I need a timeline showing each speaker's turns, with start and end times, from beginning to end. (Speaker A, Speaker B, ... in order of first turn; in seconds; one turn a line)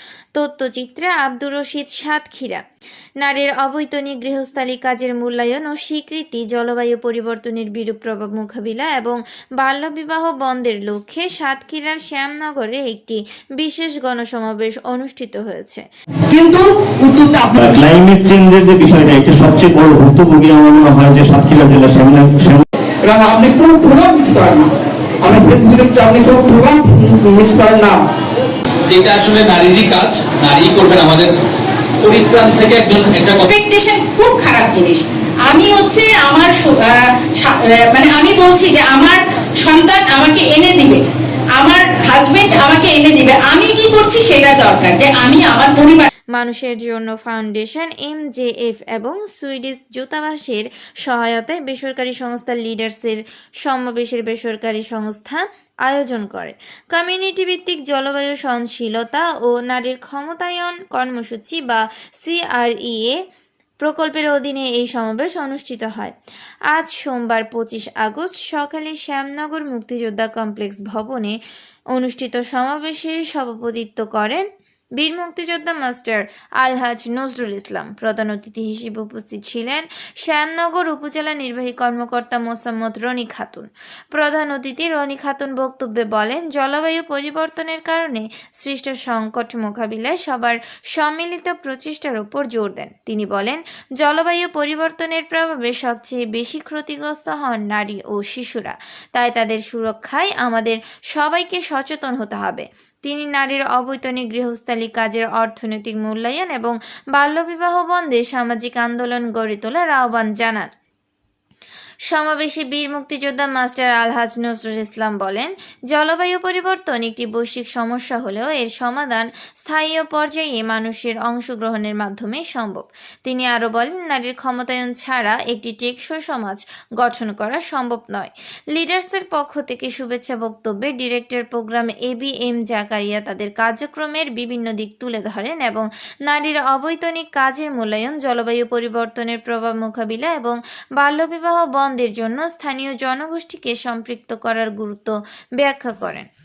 Speaker A: 0.3-2.6
Speaker A: 3.2-15.8
Speaker B: 16.3-17.6
Speaker C: 17.6-22.7
Speaker B: 23.1-24.7
Speaker B: 25.2-28.0
Speaker D: 28.9-31.3
Speaker D: 32.0-33.5
Speaker E: 33.4-41.0
Speaker E: 41.6-46.1
Speaker A: 46.4-63.2
Speaker A: 63.8-66.2
Speaker A: 66.7-71.4
Speaker A: 71.9-74.5
Speaker A: 75.0-110.7
Speaker A: 112.1-146.3